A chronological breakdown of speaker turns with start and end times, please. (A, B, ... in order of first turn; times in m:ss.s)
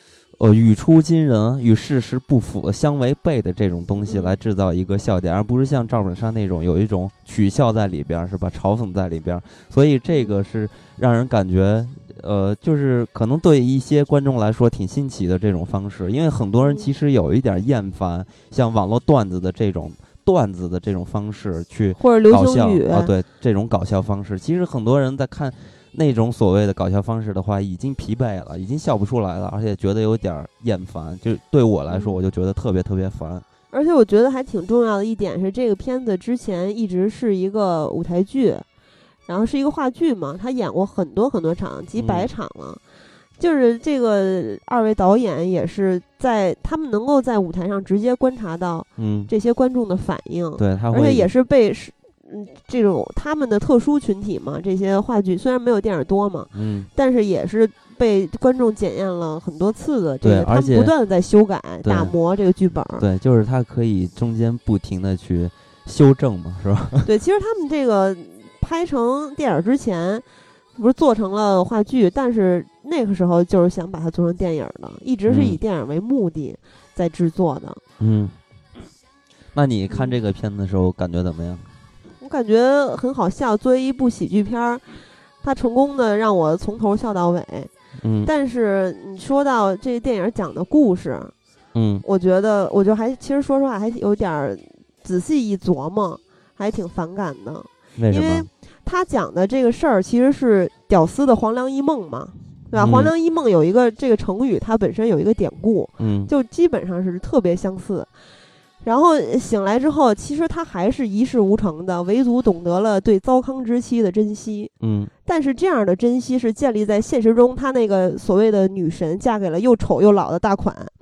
0:00.4-0:33.4 A
0:04.1-0:04.4 B
0:10.1-0:10.4 B
0:16.6-0:16.9 B
0:22.0-0:23.1 B
0:31.9-0:32.2 B
0:33.7-0:38.6 B
0:39.3-0:42.8 B
0:42.0-0:42.3 A
0:43.4-1:03.0 B
0:49.0-0:49.3 A
0:50.6-0:51.3 A
0:56.5-0:56.9 A
1:00.2-1:00.9 A
1:01.8-1:02.1 A
1:03.0-1:07.1 A
1:07.0-1:10.2 B
1:10.8-1:17.8 B
1:15.3-1:15.6 A
1:18.0-1:18.4 A
1:19.5-1:21.7 A
1:19.9-1:20.2 B
1:22.2-1:24.8 B
1:25.4-1:27.7 B
1:28.0-1:28.3 A
1:28.3-1:31.3 B
1:31.7-1:32.0 A
1:32.0-1:48.1 B
1:38.0-1:38.5 A
1:42.8-1:43.1 A
1:46.0-1:46.3 A
1:48.8-1:54.7 B
1:54.8-1:55.1 A
1:55.3-2:00.9 B